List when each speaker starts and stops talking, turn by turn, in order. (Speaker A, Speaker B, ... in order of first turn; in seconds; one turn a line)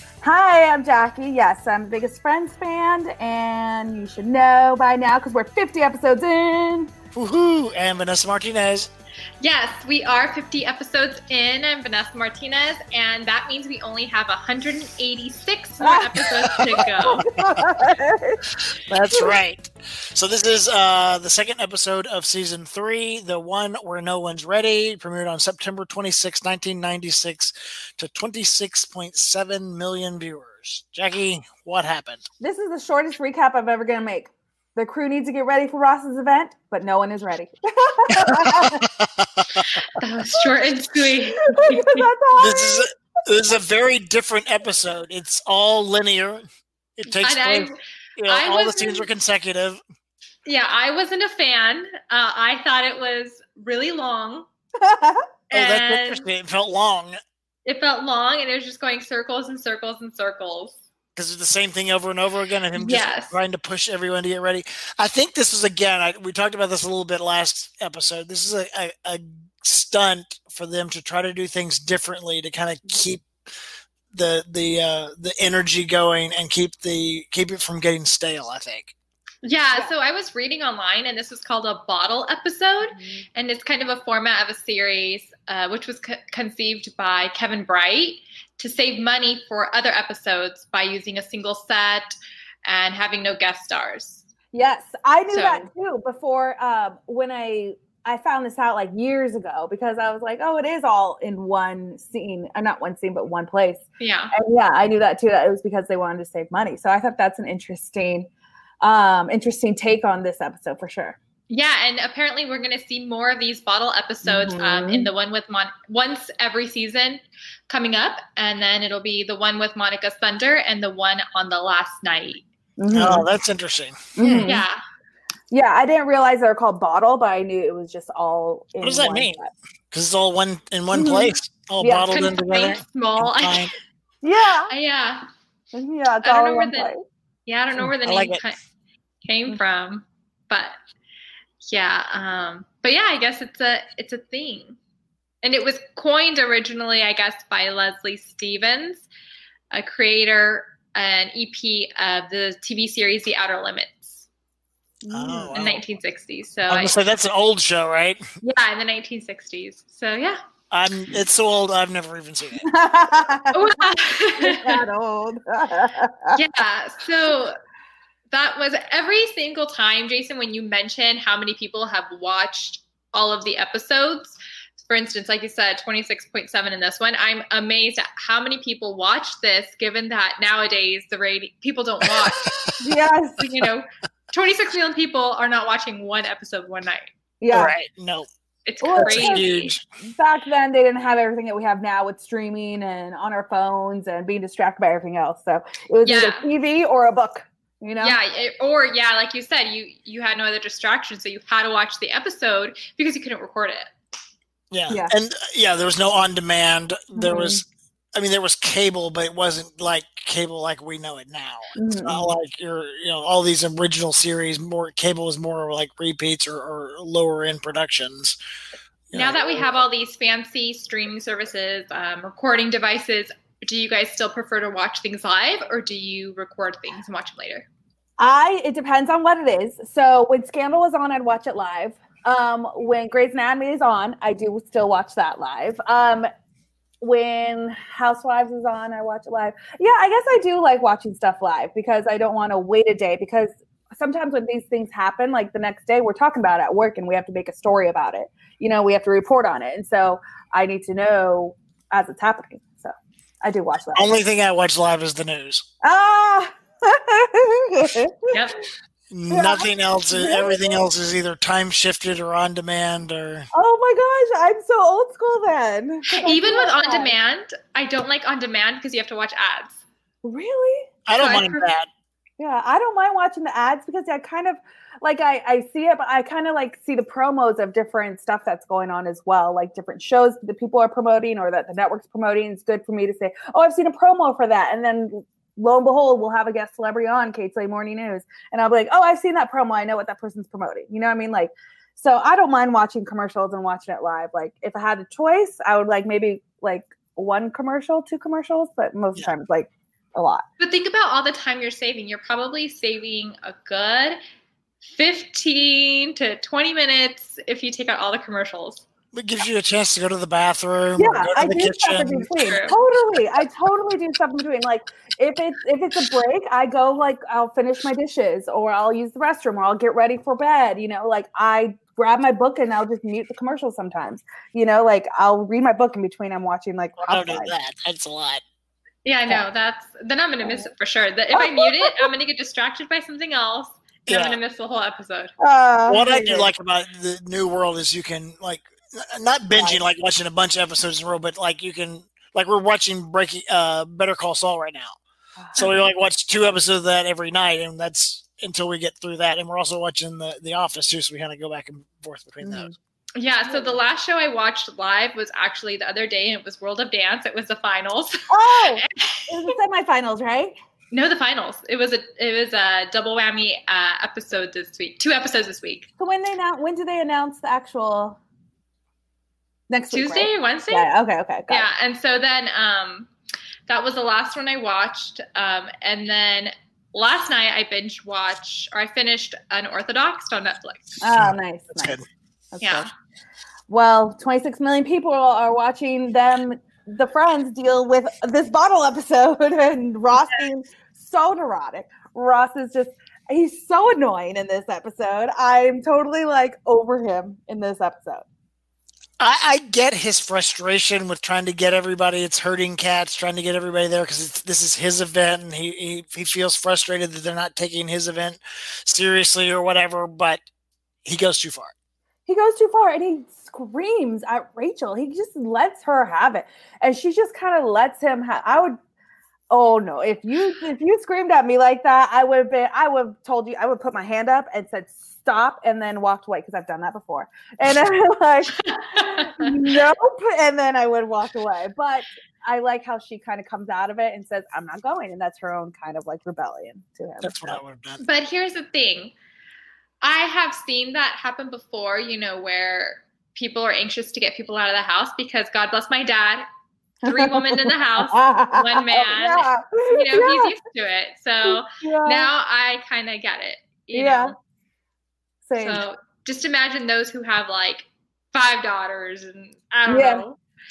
Speaker A: 0.2-6.9
Speaker B: 7.2-8.9
Speaker C: 9.4-17.3
Speaker A: 15.8-18.4
Speaker B: 16.6-17.7
Speaker B: 18.6-32.2
Speaker A: 32.4-38.8
Speaker B: 38.1-39.7
Speaker C: 39.6-42.1
Speaker A: 41.5-42.8
Speaker B: 42.4-46.5
Speaker B: 47.0-49.8
Speaker C: 47.1-47.8
Speaker C: 48.3-49.1
Speaker C: 50.5-54.5
Speaker A: 54.8-55.3
Speaker C: 55.5-56.2
Speaker B: 55.5-57.2
Speaker C: 57.6-60.8
Speaker B: 61.2-73.3
Speaker C: 62.8-63.4
Speaker B: 74.1-79.0
Speaker C: 79.4-94.3
Speaker A: 82.9-83.2
Speaker A: 94.5-108.3
Speaker C: 95.3-95.7
Speaker C: 104.0-104.3
Speaker A: 108.8-111.2
Speaker C: 111.5-122.5
Speaker A: 114.2-115.1
Speaker A: 122.8-123.3
Speaker B: 122.9-124.5
Speaker A: 124.2-124.7
Speaker C: 124.5-124.8
Speaker A: 125.5-129.5
Speaker B: 128.8-129.4
Speaker B: 129.9-133.7
Speaker A: 130.9-132.1
Speaker C: 132.1-133.7
Speaker A: 134.2-134.7
Speaker C: 134.7-135.3
Speaker A: 135.7-137.0
Speaker C: 136.2-136.9
Speaker C: 137.5-138.6
Speaker B: 137.8-138.4
Speaker C: 139.2-140.8
Speaker C: 141.7-144.8
Speaker C: 145.4-149.1
Speaker C: 149.7-154.2
Speaker A: 155.0-155.7
Speaker B: 155.1-155.8
Speaker C: 155.6-156.9
Speaker B: 156.7-158.2
Speaker C: 158.4-160.4
Speaker B: 160.7-162.7
Speaker A: 162.6-166.4
Speaker C: 163.5-164.8
Speaker C: 166.3-167.6
Speaker C: 168.3-182.5
Speaker A: 182.8-183.5
Speaker C: 183.4-187.1
Speaker A: 187.4-187.7
Speaker B: 187.5-188.3
Speaker C: 188.7-189.7
Speaker A: 188.8-189.4
Speaker B: 189.0-189.8
Speaker A: 190.0-198.2
Speaker C: 196.0-196.5
Speaker C: 198.0-203.9
Speaker B: 204.7-207.6
Speaker A: 204.9-205.2
Speaker A: 207.2-207.6
Speaker B: 208.2-218.4
Speaker A: 211.8-212.3
Speaker B: 219.1-219.6
Speaker C: 219.1-227.7
Speaker A: 228.2-236.3
Speaker A: 237.0-254.1
Speaker B: 253.9-255.7
Speaker A: 255.8-258.3
Speaker C: 258.3-258.6
Speaker B: 259.1-263.5
Speaker A: 259.3-260.8
Speaker A: 263.5-267.1
Speaker C: 266.1-269.8
Speaker A: 270.2-270.9
Speaker B: 271.1-271.9
Speaker C: 271.2-271.6
Speaker A: 272.4-300.4
Speaker C: 300.6-304.2
Speaker C: 304.8-308.9
Speaker B: 309.1-312.3
Speaker A: 311.0-327.5
Speaker C: 312.4-312.8
Speaker B: 327.1-328.4
Speaker C: 329.1-335.3
Speaker A: 330.4-330.7
Speaker A: 331.3-332.1
Speaker B: 334.1-334.4
Speaker A: 335.4-336.5
Speaker B: 335.9-345.0
Speaker A: 339.5-339.8
Speaker A: 345.4-345.6
Speaker B: 345.6-352.8
Speaker A: 352.4-352.7
Speaker C: 353.2-359.5
Speaker A: 353.5-353.8
Speaker A: 358.3-360.6
Speaker C: 360.9-365.9
Speaker A: 366.0-368.2
Speaker A: 369.7-371.7
Speaker C: 369.9-370.9
Speaker C: 371.5-373.1
Speaker C: 373.7-380.9
Speaker A: 381.0-382.0
Speaker B: 381.1-382.1
Speaker A: 382.5-382.9
Speaker C: 382.6-382.9
Speaker A: 383.7-398.3
Speaker B: 399.2-410.4
Speaker B: 411.1-411.7
Speaker A: 412.3-418.8
Speaker A: 419.5-437.6
Speaker C: 428.6-429.6
Speaker B: 437.2-438.0
Speaker C: 438.0-439.1
Speaker C: 440.0-446.5
Speaker C: 447.0-454.4
Speaker A: 447.1-450.5
Speaker A: 451.4-452.3
Speaker A: 453.9-454.3
Speaker A: 455.4-455.8
Speaker C: 455.6-460.4
Speaker A: 459.9-460.2